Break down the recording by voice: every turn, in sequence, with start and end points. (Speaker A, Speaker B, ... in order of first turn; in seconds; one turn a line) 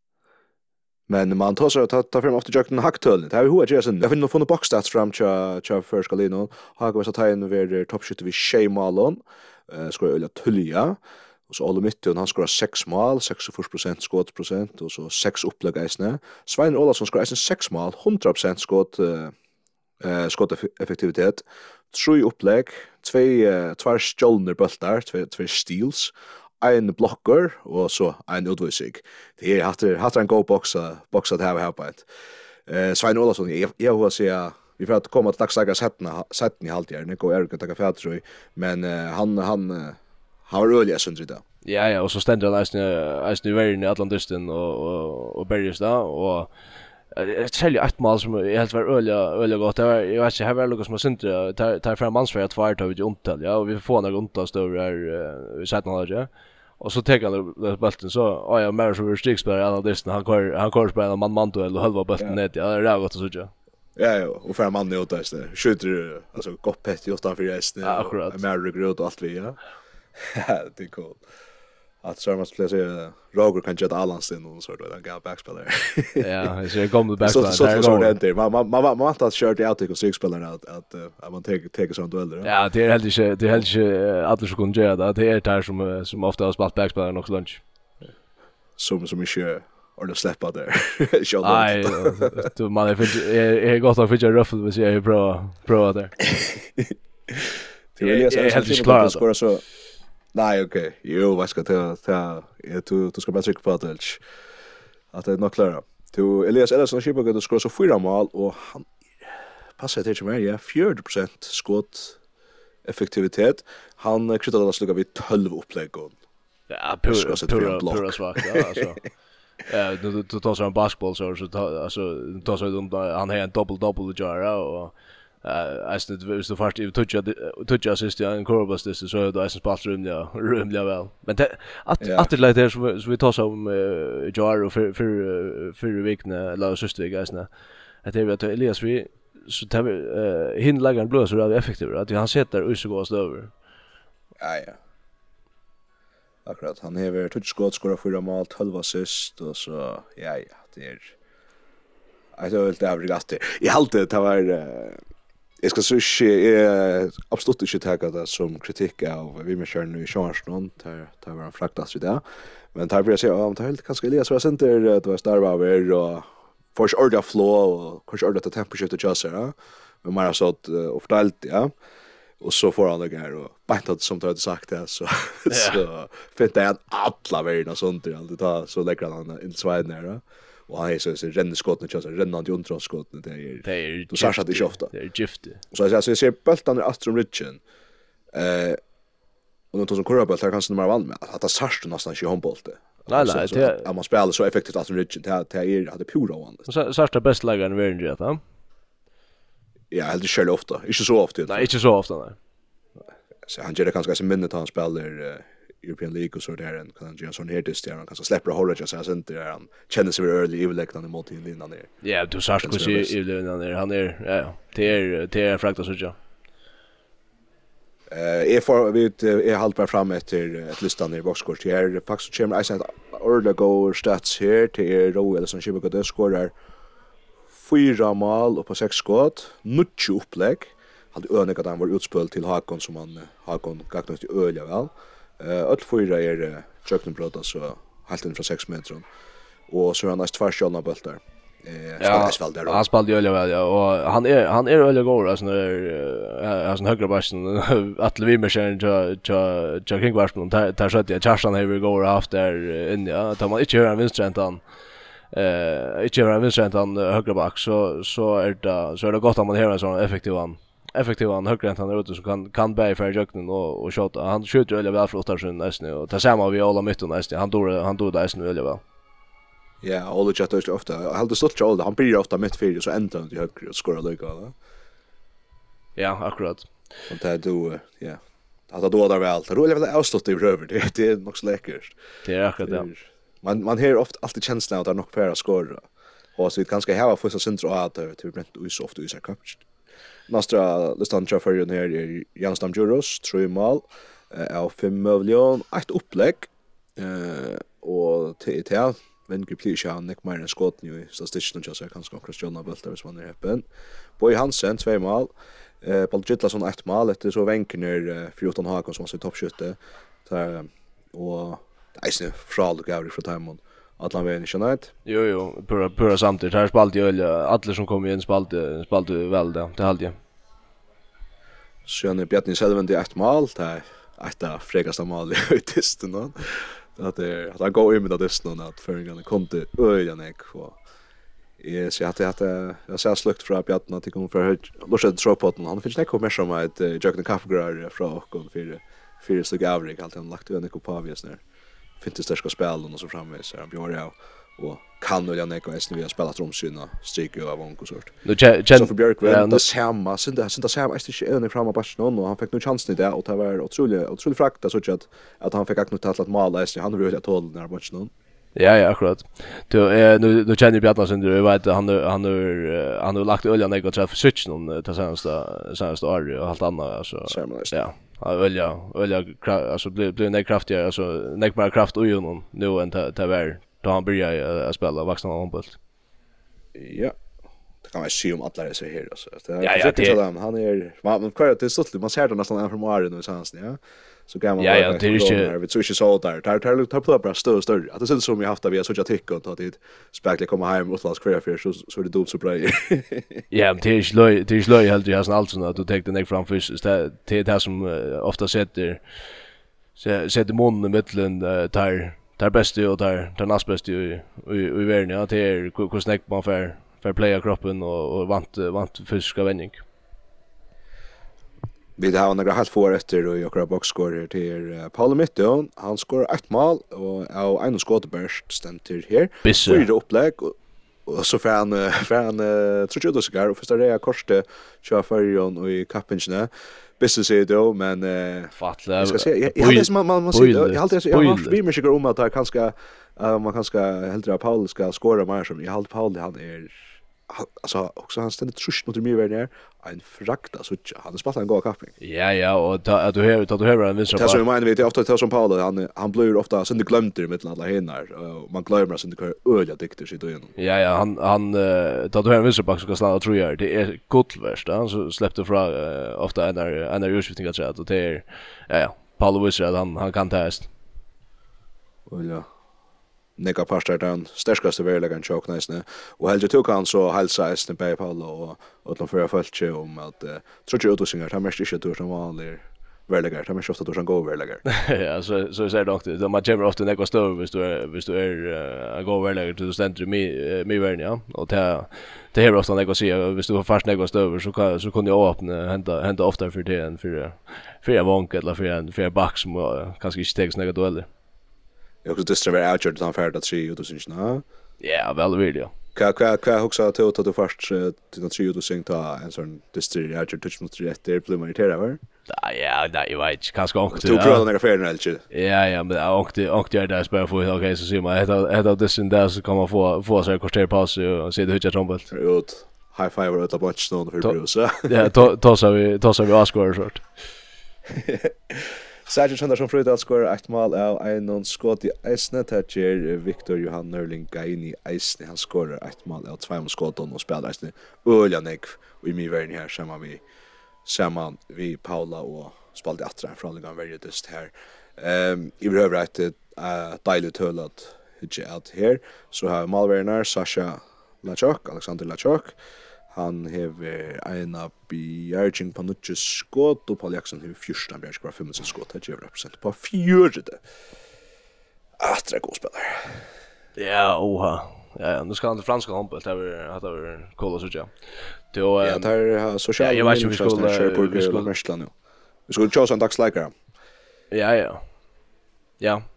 Speaker A: 1.1-19.3
Speaker A: 20.0-32.0
Speaker A: 32.7-41.4
Speaker B: 41.6-46.5
Speaker B: 47.1-63.5
Speaker A: 64.0-69.6
Speaker B: 67.8-68.4
Speaker A: 70.2-71.2
Speaker A: 72.0-76.3
Speaker B: 76.2-78.1
Speaker A: 77.2-82.5
Speaker B: 82.4-87.6
Speaker A: 88.8-92.4
Speaker B: 91.4-96.1
Speaker A: 96.2-99.6
Speaker B: 98.0-99.2
Speaker A: 100.3-104.2
Speaker A: 105.1-108.9
Speaker A: 109.8-112.2
Speaker A: 112.8-116.2
Speaker B: 116.7-119.0
Speaker A: 117.1-118.8
Speaker B: 119.7-137.5
Speaker A: 132.0-132.3
Speaker B: 138.0-143.5
Speaker A: 144.4-144.8
Speaker A: 146.4-151.1
Speaker A: 152.3-155.0
Speaker A: 155.6-162.2
Speaker A: 162.7-171.7
Speaker A: 172.4-184.9
Speaker B: 175.5-175.8
Speaker B: 183.6-185.6
Speaker A: 185.7-187.6
Speaker A: 188.3-188.8
Speaker A: 189.7-196.7
Speaker B: 193.1-193.9
Speaker B: 196.7-198.4
Speaker A: 199.9-201.7
Speaker B: 201.5-202.4
Speaker A: 203.4-211.9
Speaker B: 212.0-216.2
Speaker A: 212.6-213.1
Speaker A: 218.1-226.5
Speaker A: 227.5-239.0
Speaker A: 239.7-242.8
Speaker B: 242.0-254.6
Speaker B: 255.3-268.8
Speaker A: 269.8-274.5
Speaker B: 276.0-276.7
Speaker A: 277.1-281.9
Speaker B: 282.2-282.9
Speaker A: 282.6-289.6
Speaker A: 290.3-303.6
Speaker A: 304.2-314.9
Speaker B: 315.0-320.2
Speaker A: 321.9-330.8
Speaker A: 331.6-341.4
Speaker A: 342.0-348.1
Speaker B: 348.2-349.6
Speaker A: 348.7-358.1
Speaker B: 358.6-375.8
Speaker A: 367.3-367.7
Speaker A: 376.7-377.1
Speaker A: 377.8-393.4
Speaker B: 379.6-380.2
Speaker B: 384.6-385.5
Speaker B: 393.5-399.0
Speaker B: 400.0-409.8
Speaker A: 412.0-420.5
Speaker B: 419.4-419.9
Speaker A: 421.1-441.9
Speaker B: 428.6-431.6
Speaker B: 442.0-444.4
Speaker A: 444.1-450.5
Speaker B: 450.6-460.7
Speaker A: 462.1-462.4
Speaker A: 463.4-474.6
Speaker B: 474.6-491.1
Speaker A: 492.0-494.4
Speaker B: 494.8-495.7
Speaker A: 495.9-502.0
Speaker B: 502.3-504.5
Speaker A: 503.9-505.2
Speaker B: 505.3-512.1
Speaker A: 512.1-515.1
Speaker B: 514.9-517.0
Speaker A: 517.9-530.2
Speaker A: 530.8-542.5
Speaker A: 543.1-550.6
Speaker A: 552.0-553.2
Speaker B: 553.8-557.9
Speaker B: 558.5-559.1
Speaker A: 558.8-561.9
Speaker B: 559.8-561.5
Speaker A: 562.5-563.5
Speaker B: 564.3-564.8